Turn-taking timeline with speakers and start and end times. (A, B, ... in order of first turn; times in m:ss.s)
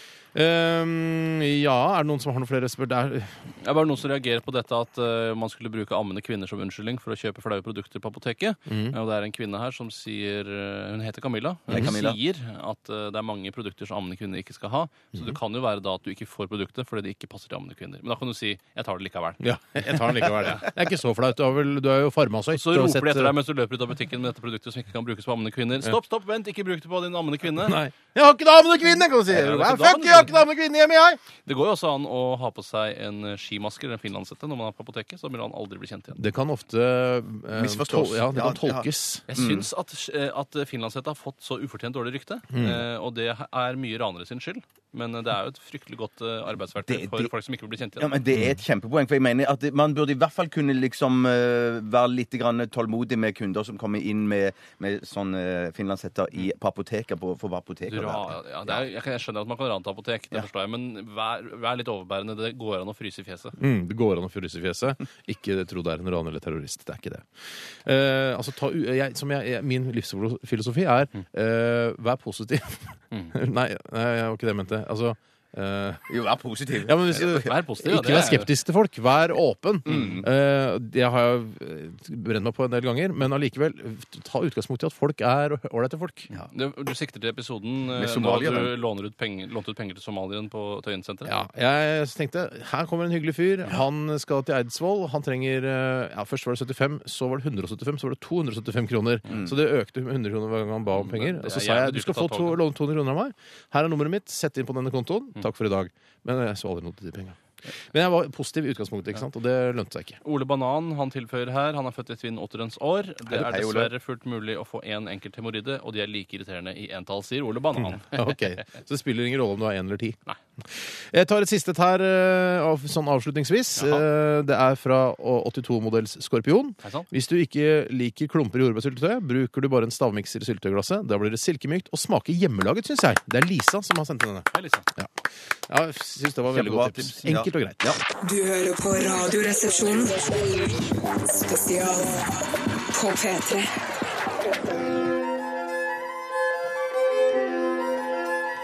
0:00.3-0:03.4 A
0:03.6-0:19.4 B
0:08.7-0:09.0 A
0:11.7-0:12.2 C
0:19.4-0:23.4 A
0:20.0-0:20.6 B
0:22.5-0:27.8 B
0:27.6-0:31.2 A
0:29.3-0:30.3 B
0:31.4-0:36.2 B
0:36.2-0:39.2 A
0:37.5-0:39.7 C
0:39.3-0:48.2 B
0:42.5-0:42.8 A
0:46.8-0:47.3 C
0:48.0-0:58.8 C
0:57.9-1:03.5 B
1:03.6-1:16.0 A
1:16.1-1:17.4 C
1:16.8-1:26.3 A
1:17.3-1:18.5 B
1:19.8-1:20.2 C
1:19.9-1:20.2 B
1:26.5-1:31.3 B
1:27.9-1:28.7 C
1:31.2-1:47.4 A
1:40.9-1:42.6 B
1:47.9-1:50.2 A
1:50.2-1:58.4 B
1:53.3-1:53.9 C
1:57.8-2:00.2 A
2:00.7-2:15.1 A
2:03.8-2:04.0 B
2:06.8-2:07.1 B
2:14.5-2:14.9 B
2:15.7-2:17.9 A
2:16.5-2:18.0 C
2:18.2-2:22.3 D
2:22.9-2:23.7 D